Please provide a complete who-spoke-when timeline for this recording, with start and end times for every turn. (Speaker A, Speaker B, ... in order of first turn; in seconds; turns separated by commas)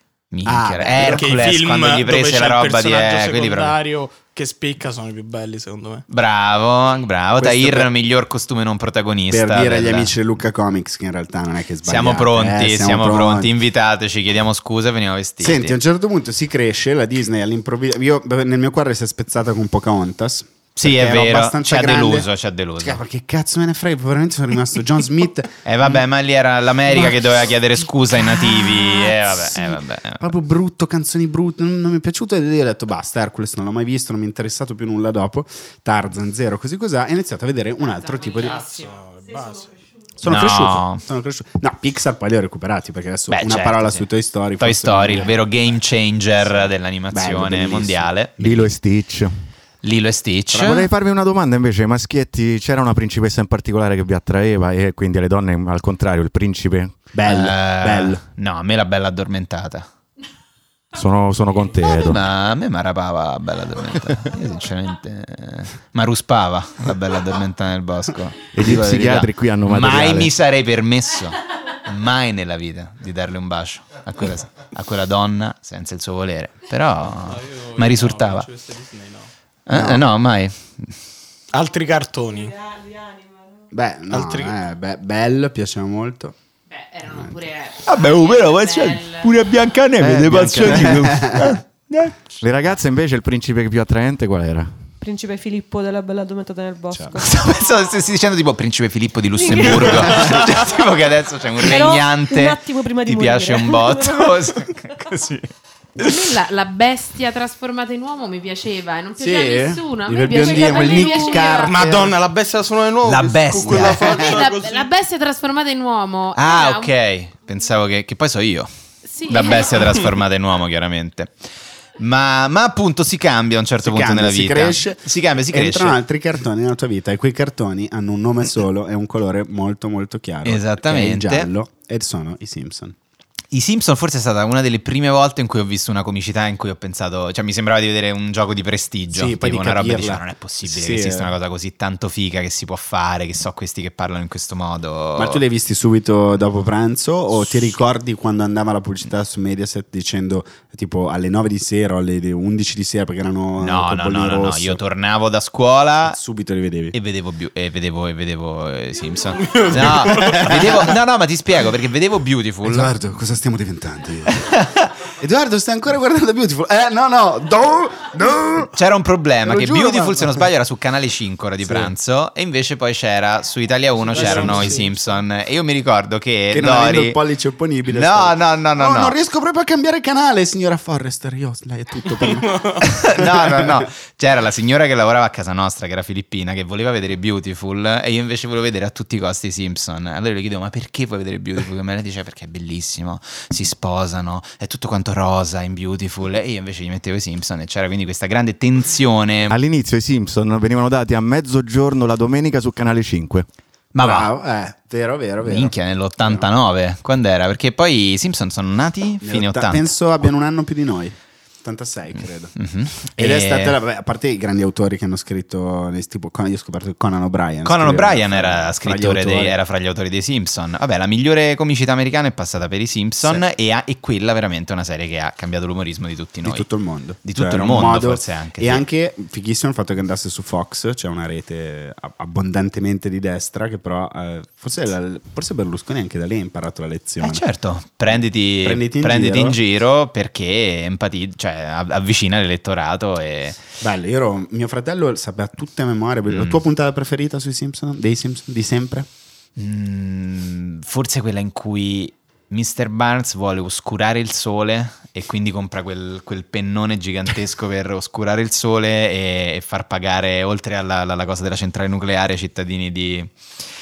Speaker A: 0.3-3.8, Speaker B: 0.5-1.4, Speaker C: 1.0-6.0, Speaker A: 6.1-10.1, Speaker B: 7.4-7.9, Speaker B: 9.3-13.5, Speaker A: 11.9-15.8, Speaker B: 15.4-26.0, Speaker A: 20.8-23.0, Speaker A: 25.6-30.3, Speaker B: 26.9-27.2, Speaker B: 28.1-38.7, Speaker D: 37.9-39.0, Speaker C: 38.3-39.8, Speaker B: 40.2-45.4, Speaker A: 40.2-41.0, Speaker A: 43.3-48.7, Speaker B: 46.6-48.7, Speaker E: 48.4-49.3, Speaker A: 49.8-50.9, Speaker E: 50.5-57.0, Speaker B: 57.1-58.2, Speaker A: 57.2-59.9, Speaker E: 60.9-62.2, Speaker A: 61.9-78.5, Speaker E: 68.5-70.3, Speaker C: 77.1-79.3, Speaker A: 79.7-80.9, Speaker B: 79.7-80.0, Speaker C: 81.5-82.6, Speaker F: 82.6-83.4, Speaker B: 83.7-86.3, Speaker C: 84.1-84.6, Speaker D: 86.7-89.3, Speaker A: 87.8-92.2, Speaker E: 90.0-91.4, Speaker B: 90.7-91.5, Speaker E: 92.4-94.7, Speaker F: 95.0-97.5, Speaker B: 96.9-97.2, Speaker A: 97.2-105.5, Speaker F: 99.4-100.7, Speaker B: 99.9-100.4, Speaker F: 101.6-104.9, Speaker D: 106.0-111.8, Speaker B: 109.2-112.1, Speaker F: 110.4-111.6, Speaker C: 111.5-114.9, Speaker A: 113.0-114.3, Speaker D: 114.0-116.9, Speaker A: 116.3-118.7, Speaker D: 119.0-120.0, Speaker A: 119.2-121.4, Speaker A: 122.0-126.0, Speaker B: 123.8-132.9, Speaker A: 130.4-131.5, Speaker A: 133.5-145.4, Speaker B: 139.1-141.3, Speaker B: 145.2-154.8, Speaker A: 153.6-156.2, Speaker B: 156.1-156.9, Speaker A: 156.9-162.9, Speaker C: 159.4-160.5, Speaker B: 159.7-161.0, Speaker B: 162.6-168.7, Speaker A: 164.4-164.9, Speaker A: 168.7-177.2, Speaker B: 169.4-170.5, Speaker B: 171.6-171.9, Speaker C: 174.1-175.0, Speaker B: 174.1-174.8, Speaker B: 176.5-183.8, Speaker A: 177.9-179.2, Speaker C: 182.2-182.9, Speaker A: 182.8-199.6, Speaker E: 199.5-203.5, Speaker A: 203.9-204.3, Speaker B: 204.0-206.5, Speaker A: 205.4-209.9, Speaker B: 209.2-219.6, Speaker A: 212.6-213.8, Speaker A: 217.6-226.7, Speaker B: 226.4-237.4, Speaker A: 227.2-228.8, Speaker A: 237.2-243.6, Speaker B: 238.6-239.6, Speaker B: 243.8-249.1, Speaker A: 246.3-246.6, Speaker A: 249.6-263.3